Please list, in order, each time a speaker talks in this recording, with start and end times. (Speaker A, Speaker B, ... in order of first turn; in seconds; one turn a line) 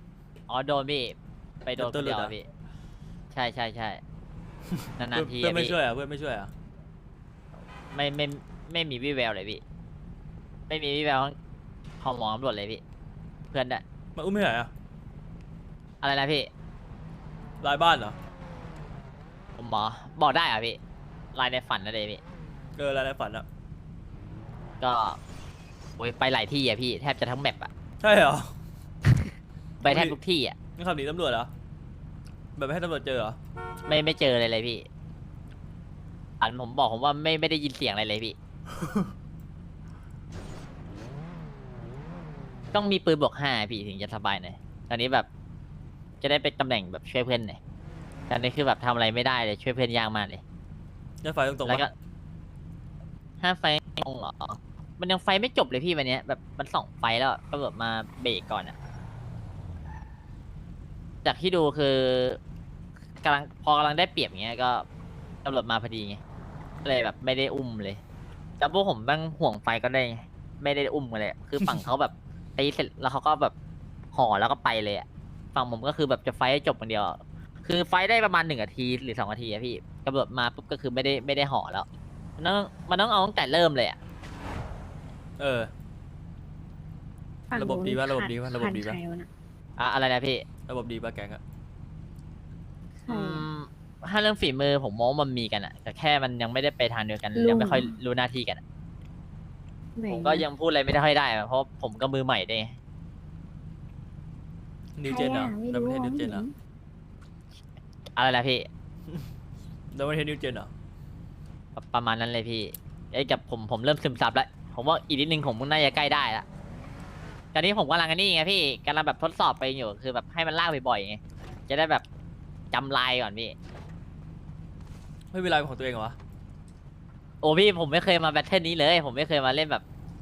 Speaker A: 0.5-2.5
Speaker B: 1.8-2.3
Speaker A: 3.3-4.0
Speaker A: 5.0-5.8
Speaker B: 5.1-6.5
Speaker A: 7.9-9.6
Speaker A: 10.7-11.3
Speaker A: 12.0-12.8
Speaker A: 13.5-13.8
Speaker B: 14.2-14.7
Speaker A: 16.0-16.5
Speaker B: 17.6-18.2
Speaker A: 19.6-20.8
Speaker A: 21.3-22.2
Speaker B: 22.8-23.4
Speaker A: 24.8-25.2
Speaker A: 26.0-27.7
Speaker B: 28.0-28.6
Speaker A: 29.1-30.5
Speaker B: 29.8-30.2
Speaker B: 30.8-31.5
Speaker B: 32.5-33.4
Speaker A: 33.9-34.9
Speaker A: 36.4-38.4
Speaker B: 38.7-39.1
Speaker A: 42.7-45.3
Speaker A: 46.2-47.6
Speaker A: 48.3-50.4
Speaker B: 51.2-51.9
Speaker A: 51.6-51.9
Speaker A: 53.4-58.8
Speaker A: 61.2-62.4
Speaker A: 63.2-64.8
Speaker A: 65.4-66.2
Speaker A: 66.8-68.0
Speaker A: 68.6-73.5
Speaker A: 74.1-81.8
Speaker A: 82.4-84.0
Speaker B: 85.4-85.7
Speaker C: 87.5-89.3
Speaker B: 87.5-89.0
Speaker A: 89.8-90.4
Speaker B: 90.7-91.4
Speaker C: 93.1-93.5
Speaker A: 93.1-98.6
Speaker C: 97.3-98.0
Speaker C: 100.0-100.4
Speaker A: 100.1-102.8
Speaker B: 105.0-106.5
Speaker C: 105.0-106.5
Speaker A: 108.2-108.7
Speaker B: 109.9-110.7
Speaker A: 111.8-116.4
Speaker A: 117.5-122.0
Speaker A: 122.7-123.5
Speaker B: 125.3-126.2
Speaker A: 127.4-129.8